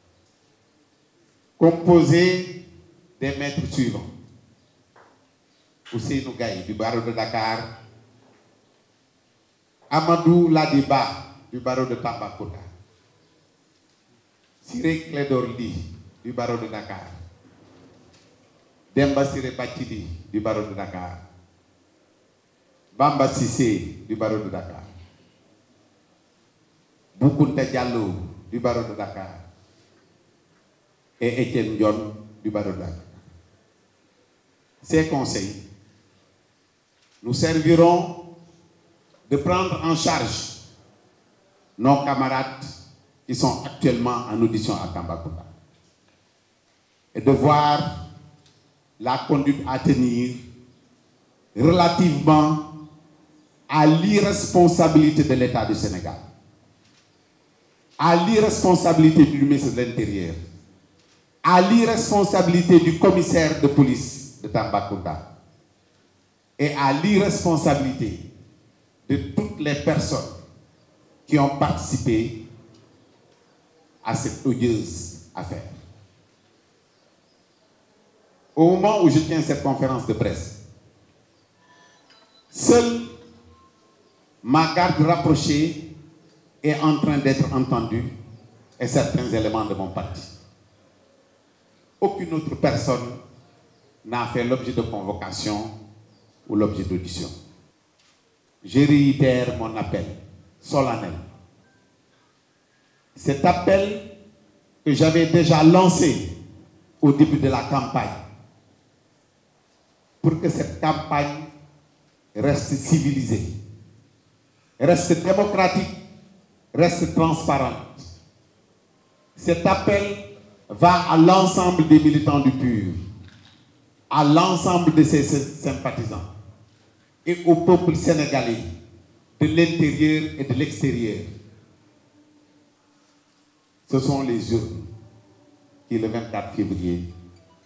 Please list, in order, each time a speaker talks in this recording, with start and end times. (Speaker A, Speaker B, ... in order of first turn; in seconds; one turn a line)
Speaker A: 1.6-2.5
Speaker A: 3.2-4.1
Speaker A: 5.9-7.7
Speaker A: 9.9-12.7
Speaker A: 14.6-17.2
Speaker A: 18.9-21.2
Speaker A: 22.9-24.9
Speaker A: 27.2-29.4
Speaker A: 31.2-33.2
Speaker A: 34.8-35.6
Speaker A: 37.2-38.2
Speaker A: 39.3-40.5
Speaker A: 41.8-42.7
Speaker A: 43.3-45.5
Speaker A: 47.1-47.9
Speaker A: 49.0-50.4
Speaker A: 51.5-52.6
Speaker A: 53.7-56.2
Speaker A: 58.0-60.4
Speaker A: 61.5-65.2
Speaker A: 66.6-68.2
Speaker A: 69.1-70.4
Speaker A: 71.3-72.4
Speaker A: 74.0-75.8
Speaker A: 78.6-80.5
Speaker A: 82.5-83.1
Speaker A: 84.4-85.8
Speaker A: 86.6-88.1
Speaker A: 88.8-90.3
Speaker A: 92.0-93.2
Speaker A: 94.0-95.7
Speaker A: 96.5-97.3
Speaker A: 98.6-101.2
Speaker A: 103.2-104.0
Speaker A: 104.8-106.3
Speaker A: 107.0-108.2
Speaker A: 110.2-111.5
Speaker A: 112.3-113.5
Speaker A: 114.8-115.9
Speaker A: 116.7-118.1
Speaker A: 119.4-123.0
Speaker A: 124.1-126.3
Speaker A: 127.2-128.7
Speaker A: 129.4-131.3
Speaker A: 133.9-134.9
Speaker A: 135.9-137.1